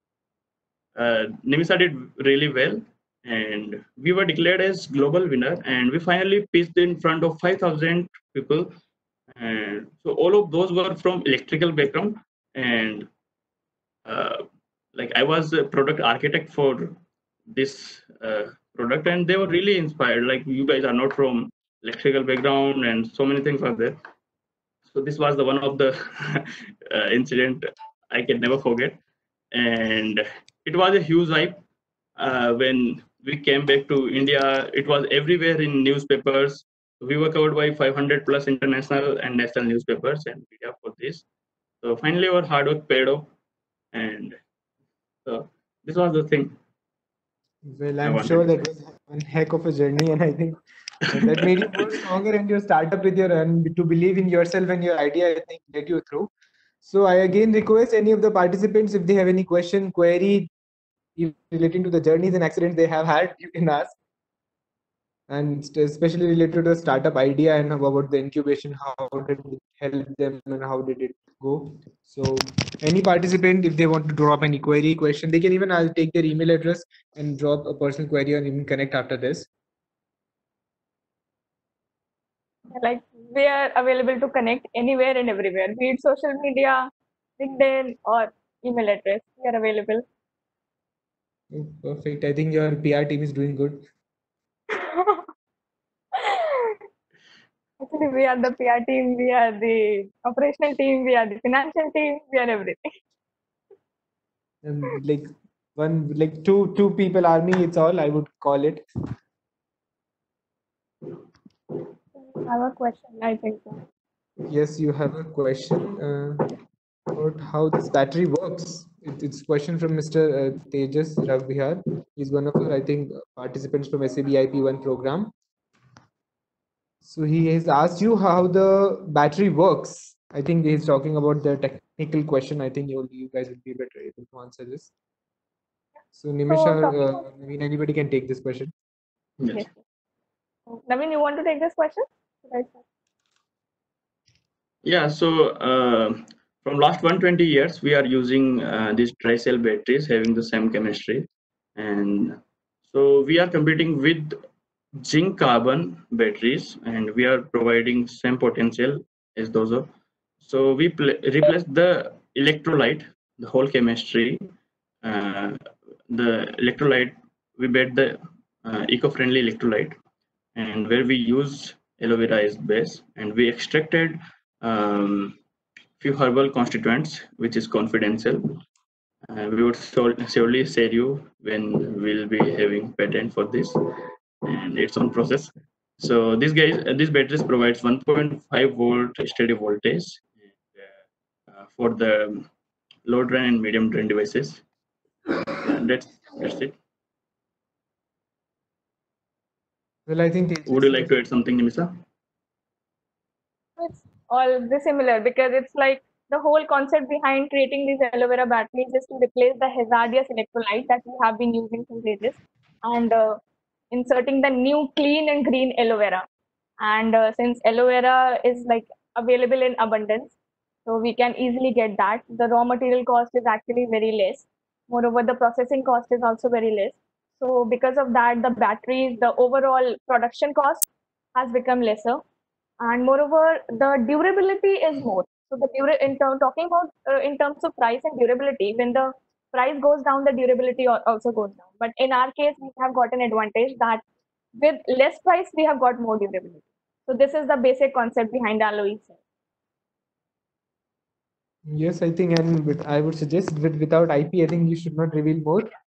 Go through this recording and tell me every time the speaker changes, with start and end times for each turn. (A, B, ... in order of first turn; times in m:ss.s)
0:00.9-0:08.7 A
0:09.3-0:13.1 A
0:14.0-0:14.4 A
0:14.9-0:17.0 A
0:17.5-0:24.0 A
0:24.9-0:29.0 A
0:29.5-0:31.6 A
0:32.2-0:41.2 A
0:41.8-0:43.3 A
0:43.9-0:44.4 A
0:45.2-0:46.5 A
0:47.6-0:56.3 B
0:48.0-0:48.6 A
0:51.1-0:51.8 A
0:56.8-1:00.5 B
1:01.2-1:03.9 B
1:05.3-1:19.5 B
1:22.7-1:30.0 C
1:31.5-1:33.8 B
1:34.7-1:35.3 C
1:36.1-1:36.8 C
1:37.8-1:42.9 C
1:44.6-1:48.8 B
1:52.2-1:53.8 C
1:54.5-1:56.4 B
1:57.1-2:05.3 B
2:07.0-2:14.9 B
2:16.1-2:18.7 B
2:16.5-2:17.2 C
2:19.4-2:19.6 A
2:19.5-2:19.8 C
2:20.7-2:22.8 C
2:24.8-2:34.3 A
2:35.0-2:39.9 A
2:40.4-2:44.4 A
2:45.0-2:50.0 A
2:50.5-2:55.4 A
2:56.0-2:58.5 A
2:59.3-3:03.7 A
3:04.4-3:10.9 A
3:11.5-3:12.5 A
3:13.0-3:14.6 A
3:15.5-3:16.7 A
3:20.1-3:21.1 B
3:20.7-3:21.9 A
3:23.8-3:33.4 C
3:33.9-3:36.2 C
3:36.8-3:40.3 C
3:40.8-3:52.2 C
3:52.8-4:04.0 C
4:04.6-4:09.2 C
4:11.6-4:15.7 B